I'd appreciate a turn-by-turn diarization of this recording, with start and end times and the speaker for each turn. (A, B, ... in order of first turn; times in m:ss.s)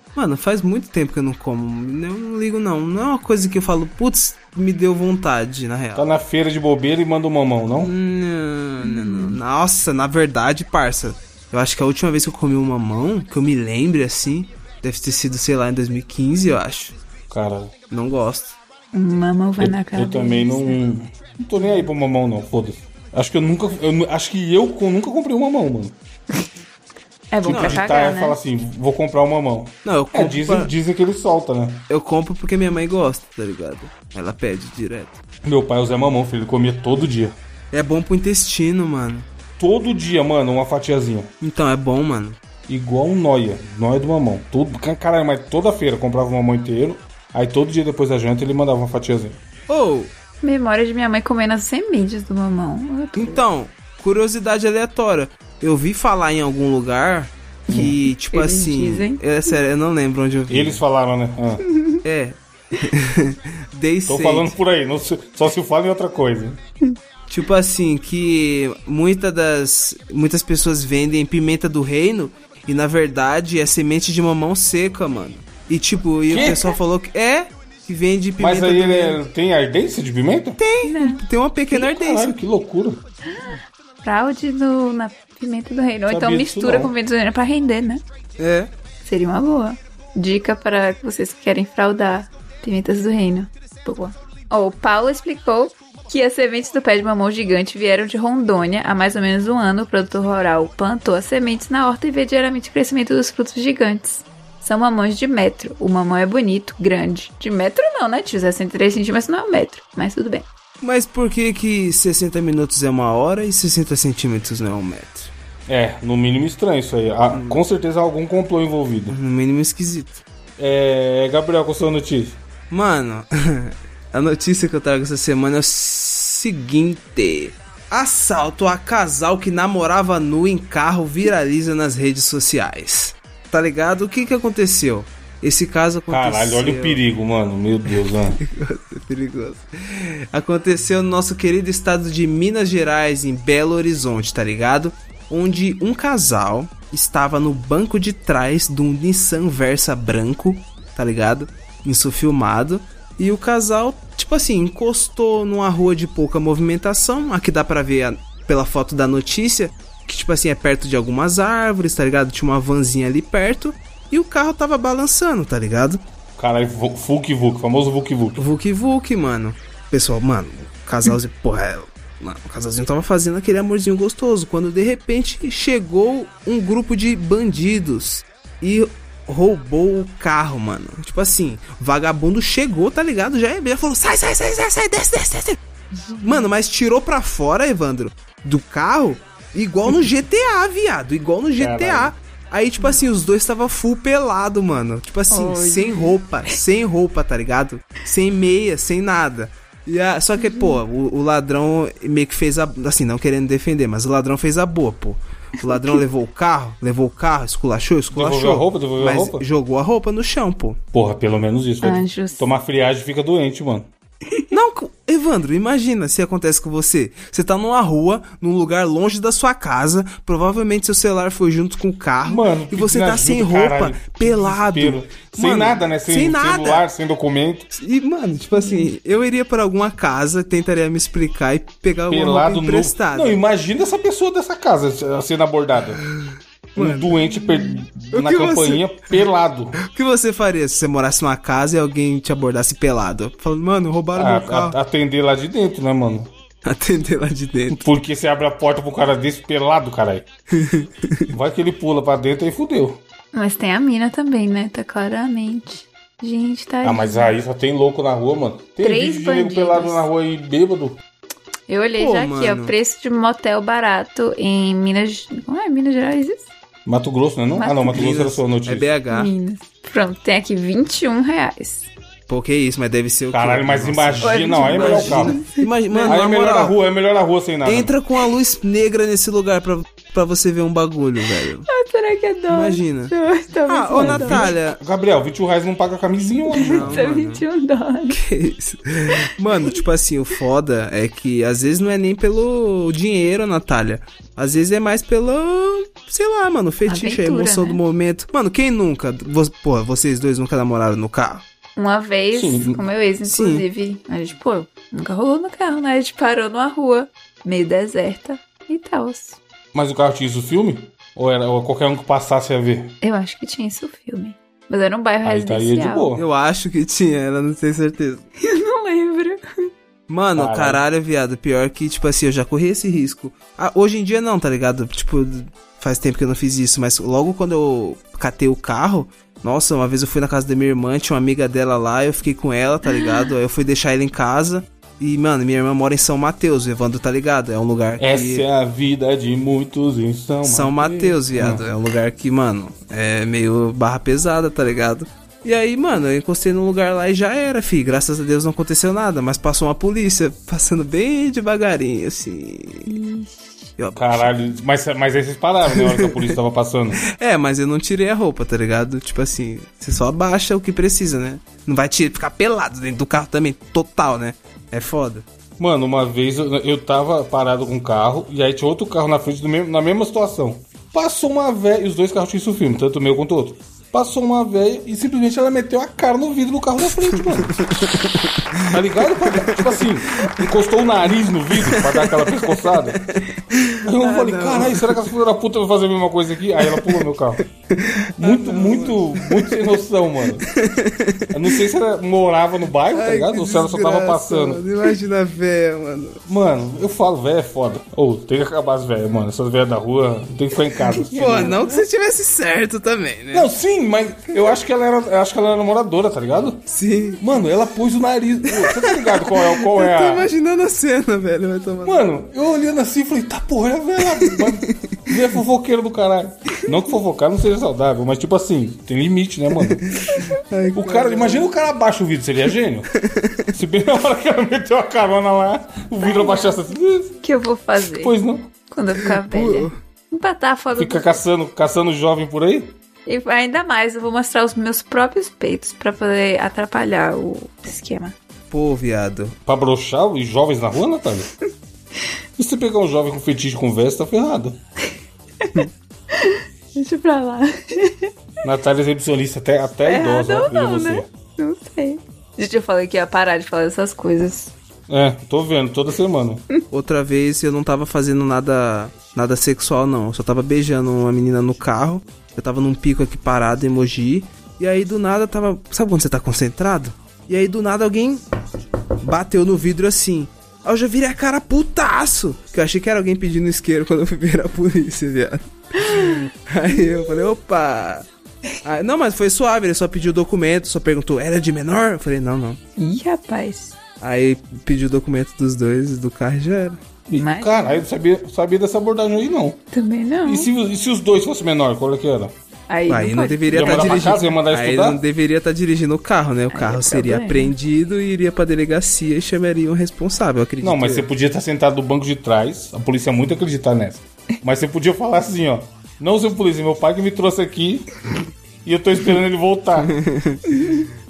0:00.2-0:06.1 A
0:05.9-0:07.9 B
0:07.8-0:16.9 A
0:08.8-0:09.4 C
0:17.3-0:17.7 B
0:17.9-0:18.6 A
0:18.9-0:20.8 C
0:19.6-0:25.9 B
0:27.3-0:28.4 C
0:27.4-0:31.8 B
0:27.4-0:27.8 A
0:29.8-0:30.7 A
0:31.9-0:35.2 A
0:35.4-0:37.3 B
0:37.7-0:39.3 A
0:39.6-0:41.3 B
0:41.4-0:42.4 A
0:42.7-0:49.4 B
0:49.7-0:50.1 A
0:50.4-0:53.4 C
0:53.2-1:00.8 A
0:57.7-0:59.2 C
1:00.5-1:01.6 B
1:01.7-1:02.0 C
1:02.0-1:04.5 A
1:04.1-1:06.6 B
1:07.3-1:19.2 A
1:16.3-1:16.8 B
1:18.4-1:20.6 B
1:20.6-1:22.3 A
1:20.8-1:21.2 C
1:21.7-1:23.0 B
1:23.3-1:28.0 C
1:26.1-1:26.9 B
1:28.4-1:28.7 A
1:29.0-1:50.5 C
1:50.8-1:55.3 A
1:55.7-1:59.2 B
1:57.3-1:57.6 A
1:59.1-2:00.2 A
2:00.6-2:02.4 B
2:02.7-2:17.0 A
2:16.1-2:18.4 B
2:17.9-2:46.0 A
2:46.4-2:48.4 B
2:48.4-3:05.6 A
3:05.9-3:06.5 C
3:06.2-3:30.8 A
3:11.6-3:12.1 B
3:15.3-3:16.5 C
3:20.4-3:20.8 C
3:25.6-3:26.0 C
3:28.1-3:29.4 B
3:30.9-3:33.9 B
3:31.8-3:32.5 C
3:34.5-3:46.8 A
3:42.2-3:47.7 B
3:47.7-3:53.4 A
3:48.6-3:48.9 C
3:52.1-3:56.0 B
3:56.0-3:57.5 A
3:56.8-3:59.8 B
3:58.1-3:59.2 A
3:59.8-4:04.8 A
4:04.1-4:06.3 B
4:06.6-4:07.8 A
4:07.7-4:10.2 B
4:10.5-4:11.3 A
4:11.3-4:13.0 B
4:13.3-4:17.3 C
4:16.8-4:21.0 B
4:18.8-4:20.1 C
4:21.7-4:26.5 C
4:22.0-4:22.7 A
4:26.8-4:28.9 B
4:27.6-4:28.0 C
4:27.9-4:29.3 A
4:29.1-4:31.9 C
4:32.3-4:36.8 A
4:33.3-4:35.4 B
4:34.2-4:36.2 C
4:36.0-4:37.9 B
4:37.6-4:41.7 A
4:41.7-4:44.5 C
4:42.5-4:43.1 A
4:43.7-4:44.8 A
4:43.9-4:47.0 B
4:46.5-4:48.2 C
4:46.5-4:47.4 A
4:48.1-5:01.4 A
4:56.8-4:57.8 C
5:01.8-5:09.4 C
5:02.3-5:02.8 B
5:03.2-5:03.6 A
5:09.7-5:12.9 B
5:13.0-5:16.1 C
5:15.2-5:16.2 B
5:16.1-5:18.2 A
5:18.4-5:19.7 C
5:20.1-5:38.4 A
5:20.3-5:20.8 B
5:38.0-5:41.6 B
5:40.4-5:52.9 A
5:52.9-5:53.7 C
5:53.8-5:54.4 A
5:53.9-5:57.0 B
5:55.7-5:56.3 A
5:57.0-6:05.2 A
6:05.6-6:17.7 B
6:17.0-6:20.4 A
6:18.6-6:23.0 B
6:21.6-6:25.1 A
6:23.8-6:27.4 B
6:26.6-6:27.0 A
6:27.7-6:29.8 A
6:28.2-6:30.5 B
6:30.4-6:31.6 A
6:31.3-6:34.6 B
6:32.9-6:36.2 A
6:36.3-6:41.5 B
6:41.0-6:43.5 A
6:41.2-6:41.8 C
6:43.3-6:46.6 B
6:46.7-6:47.3 A
6:47.2-6:50.3 B
6:48.5-6:52.1 A
6:51.8-6:59.8 B
6:54.1-6:55.2 A
6:59.6-7:01.5 A
7:00.7-7:02.9 B
7:03.0-7:03.4 A
7:03.5-7:07.2 B
7:06.0-7:06.6 C
7:07.2-7:08.1 C
7:07.8-7:08.5 B
7:08.7-7:11.2 C
7:09.0-7:09.8 A
7:10.7-7:12.7 B
7:13.0-7:18.1 C
7:18.5-7:19.4 A
7:19.4-7:21.3 B
7:22.4-7:24.6 B
7:25.4-7:28.1 C
7:28.4-7:31.1 B
7:29.8-7:34.5 C
7:34.9-7:36.4 B
7:36.7-7:48.2 A
7:49.0-7:58.1 A
7:55.8-7:57.2 C
7:58.6-8:02.6 A
8:02.8-8:03.8 C
8:04.0-8:06.8 A
8:07.1-8:09.6 B
8:07.1-8:07.8 C
8:09.7-8:10.5 C
8:10.2-8:12.3 B
8:12.7-8:14.2 C
8:12.9-8:21.0 A
8:13.5-8:15.0 B
8:16.5-8:17.5 C
8:20.6-8:27.9 B
8:28.6-8:29.9 B
8:29.8-8:30.6 A
8:30.5-8:30.9 C